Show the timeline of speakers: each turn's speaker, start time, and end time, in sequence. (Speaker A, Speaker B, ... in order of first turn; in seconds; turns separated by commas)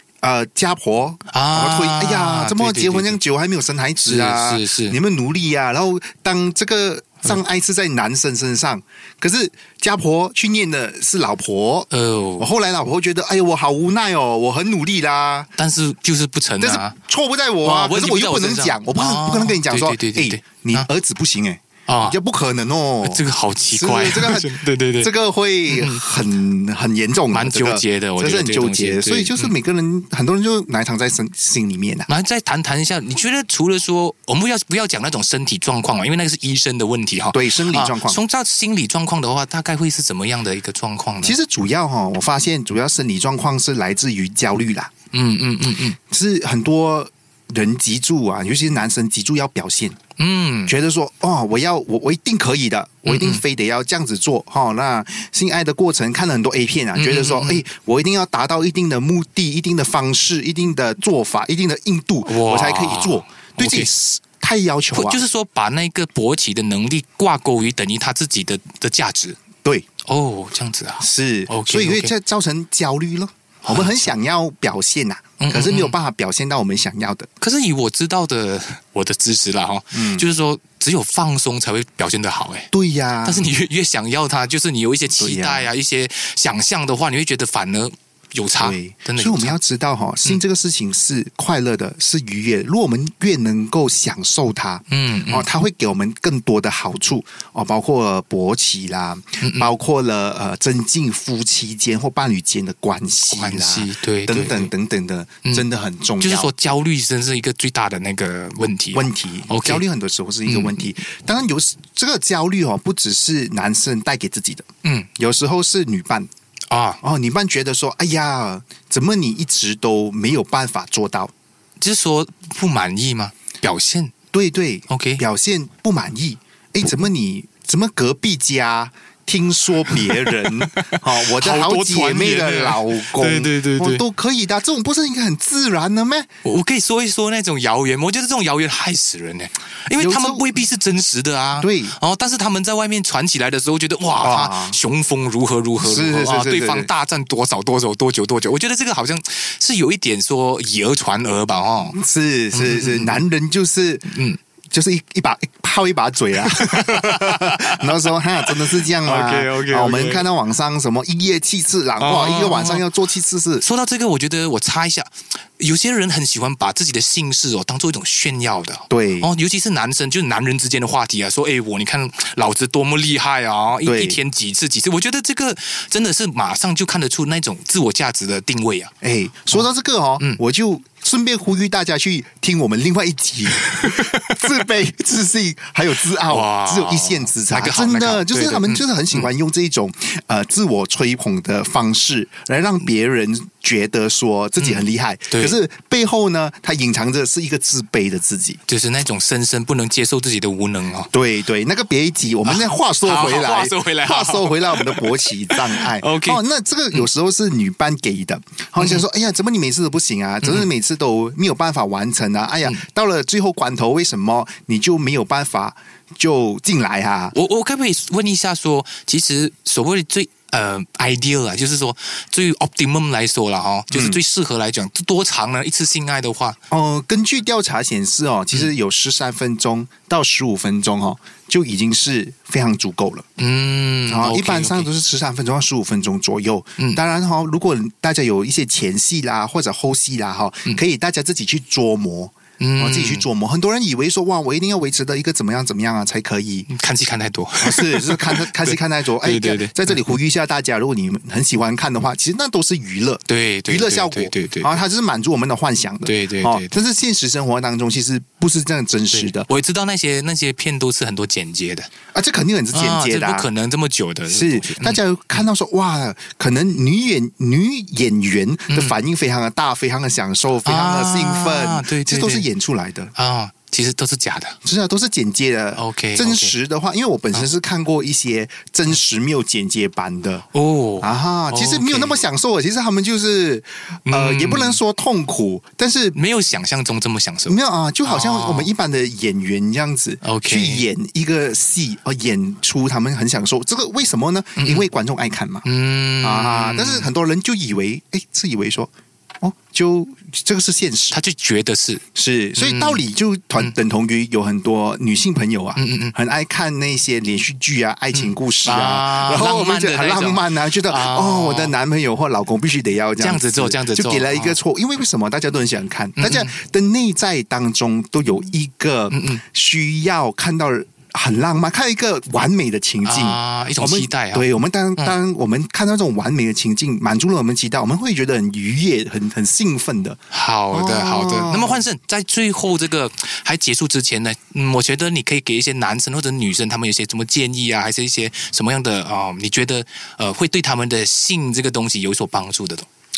Speaker A: 0.2-15.5, Speaker B: 1.3-3.2, Speaker B: 4.0-5.0, Speaker B: 11.9-12.5, Speaker B: 15.6-17.0, Speaker A: 16.6-32.1, Speaker B: 17.6-20.9, Speaker B: 21.9-22.2, Speaker B: 23.0-25.1, Speaker B: 25.7-26.0, Speaker B: 27.3-29.6, Speaker B: 32.1-41.4, Speaker A: 37.3-38.2, Speaker A: 41.2-44.9, Speaker B: 45.1-46.0, Speaker A: 46.1-50.0, Speaker B: 50.2-50.7, Speaker A: 50.7-65.2, Speaker B: 53.1-53.4, Speaker B: 57.0-57.6, Speaker B: 62.2-63.9, Speaker B: 64.9-69.4, Speaker B: 70.1-72.1, Speaker A: 71.0-77.3, Speaker B: 73.6-74.1, Speaker B: 75.4-76.0, Speaker B: 77.4-82.7, Speaker A: 79.9-80.3, Speaker A: 82.7-83.5, Speaker B: 83.2-89.6, Speaker A: 85.1-85.7, Speaker A: 88.6-106.5, Speaker B: 94.9-95.5, Speaker B: 99.4-99.7, Speaker B: 103.3-104.7, Speaker B: 106.2-109.8, Speaker A: 108.9-114.7, Speaker B: 110.5-110.9, Speaker B: 114.8-115.1, Speaker A: 115.2-116.3, Speaker B: 116.7-117.0, Speaker A: 117.0-121.3, Speaker B: 121.8-124.1, Speaker A: 124.3-136.3, Speaker B: 124.9-125.2, Speaker B: 130.1-134.0, Speaker B: 136.4-152.0, Speaker A: 140.0-140.5, Speaker A: 141.6-142.0, Speaker A: 144.2-144.8, Speaker A: 145.8-146.9, Speaker A: 151.8-154.1, Speaker B: 152.5-153.2, Speaker B: 154.1-154.4, Speaker A: 154.7-163.7, Speaker B: 156.4-160.3, Speaker B: 162.0-162.8, Speaker B: 163.6-178.9, Speaker A: 168.9-169.3, Speaker A: 173.8-174.2, Speaker A: 179.0-198.6, Speaker B: 183.5-184.3, Speaker B: 186.3-189.3, Speaker B: 194.6-195.6, Speaker B: 198.7-201.1, Speaker A: 201.1-217.3, Speaker B: 202.4-206.4, Speaker B: 210.4-210.7, Speaker B: 217.3-226.6, Speaker A: 223.9-224.2, Speaker A: 226.7-233.2, Speaker B: 233.4-234.9, Speaker A: 234.1-246.7, Speaker B: 242.6-243.2, Speaker B: 246.7-250.1, Speaker A: 247.6-259.5, Speaker B: 253.3-254.8, Speaker B: 256.1-256.8, Speaker B: 259.1-261.9, Speaker A: 262.1-263.5, Speaker B: 262.7-265.4, Speaker A: 264.3-273.1, Speaker B: 268.7-268.9, Speaker B: 270.6-272.5, Speaker B: 273.1-274.6, Speaker A: 274.6-280.4, Speaker B: 275.8-276.5, Speaker B: 280.5-282.2, Speaker A: 281.0-286.2, Speaker B: 284.1-284.8, Speaker B: 286.1-288.7, Speaker A: 287.5-295.7, Speaker B: 290.2-290.9, Speaker B: 294.6-294.9, Speaker B: 295.6-297.1, Speaker A: 296.2-301.2, Speaker B: 301.1-302.0, Speaker A: 302.1-330.2, Speaker B: 302.6-303.0, Speaker B: 305.8-306.1, Speaker B: 308.1-311.8, Speaker B: 313.2-314.6, Speaker B: 316.2-316.5, Speaker B: 319.1-319.4, Speaker B: 323.0-324.5, Speaker B: 330.3-342.9, Speaker A: 330.7-331.8